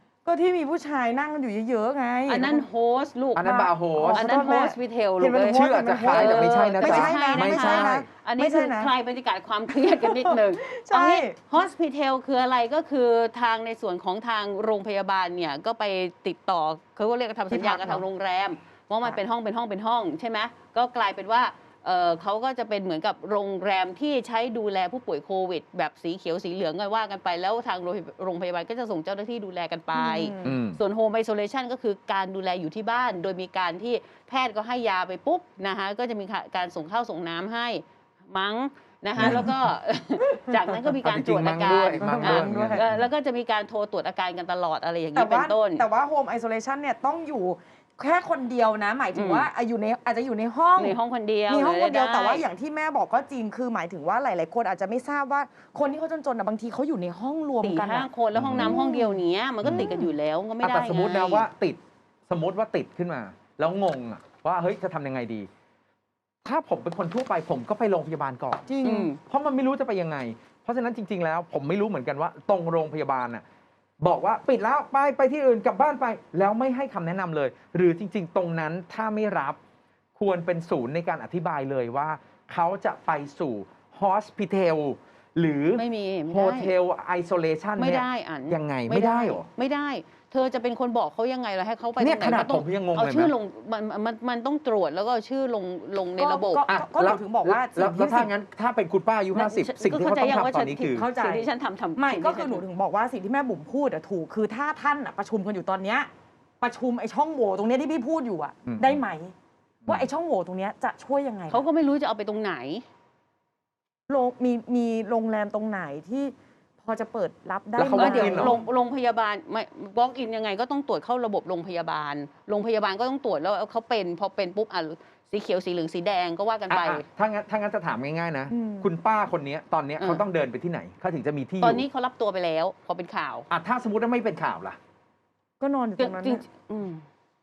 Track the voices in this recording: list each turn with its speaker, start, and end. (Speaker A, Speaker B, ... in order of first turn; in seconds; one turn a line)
Speaker A: 0.2-2.6
Speaker B: 2.3-45.8
Speaker C: 3.4-4.2
Speaker A: 3.4-8.9
Speaker C: 5.5-8.1
Speaker A: 9.7-11.3
Speaker A: 17.5-18.0
Speaker A: 29.9-30.6
Speaker C: 30.5-30.8
Speaker C: 39.1-39.5
Speaker A: 39.2-39.5
Speaker C: 41.0-42.8
Speaker A: 42.0-42.9
Speaker A: 45.1-60.1
Speaker B: 49.1-49.5
Speaker B: 50.8-52.5
Speaker B: 57.6-61.5
Speaker C: 58.3-58.7
Speaker C: 60.6-65.5
Speaker C: 66.4-68.7
Speaker A: 68.7-69.1
Speaker B: 68.8-69.2
Speaker C: 69.3-73.4
Speaker C: 74.0-79.6
Speaker C: 80.1-89.5
Speaker B: 85.8-86.7
Speaker B: 87.8-96.6
Speaker C: 92.0-93.3
Speaker A: 96.2-98.3
Speaker C: 96.7-101.0
Speaker B: 99.3-102.6
Speaker A: 100.9-106.1
Speaker A: 106.6-109.3
Speaker C: 108.6-109.0
Speaker A: 109.8-111.6
Speaker B: 111.5-112.8
Speaker A: 114.1-116.3
Speaker A: 116.8-118.6
Speaker C: 117.8-118.5
Speaker B: 117.9-127.0
Speaker C: 126.7-131.8
Speaker A: 128.5-128.9
Speaker B: 131.6-133.5
Speaker C: 133.5-134.8
Speaker A: 135.6-136.4
Speaker B: 136.0-137.0